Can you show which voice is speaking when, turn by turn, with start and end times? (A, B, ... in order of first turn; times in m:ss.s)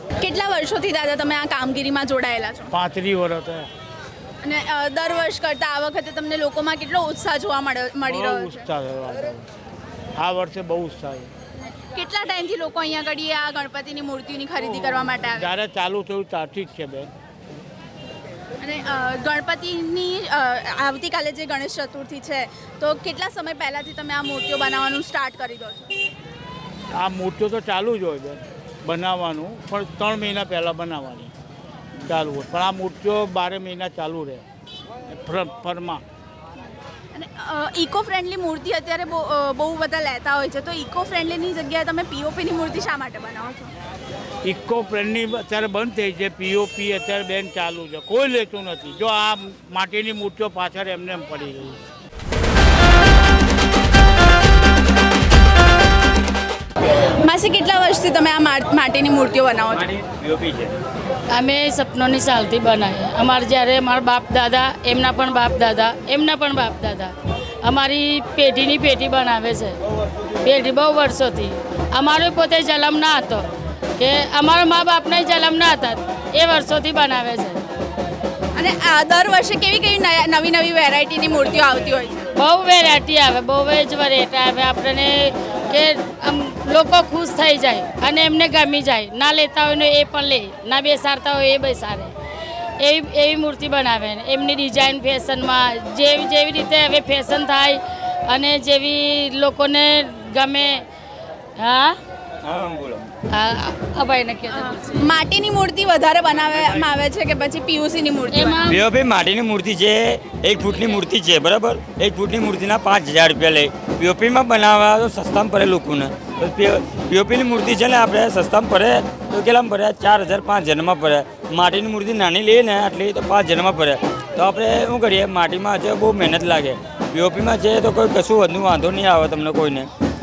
0:00.2-0:02.7 A
0:02.7-0:03.7 B
0:04.4-0:08.7 A
0:08.1-0:09.5 B
0:10.2-0:11.3 B
0:12.0-0:15.5 A
0:15.4-0:17.1 B
0:18.6-0:25.9 A
0:27.0-0:31.3 B
0:32.0-0:34.4 B
0:35.1-0:36.0 B
0:37.1-0:43.7 A
0:44.4-0:51.8 B
0:57.2-1:00.0 A
0:59.8-1:00.7 C
1:01.3-1:09.8 D
1:10.4-1:13.5 D
1:14.0-1:17.6 D
1:18.6-1:22.2 A
1:22.4-1:32.1 D
1:32.8-1:40.8 D
1:41.6-1:42.0 D
1:42.4-1:43.1 C
1:43.3-1:45.1 D
1:44.5-1:48.6 A
1:48.3-1:48.8 D
1:48.7-2:09.9 C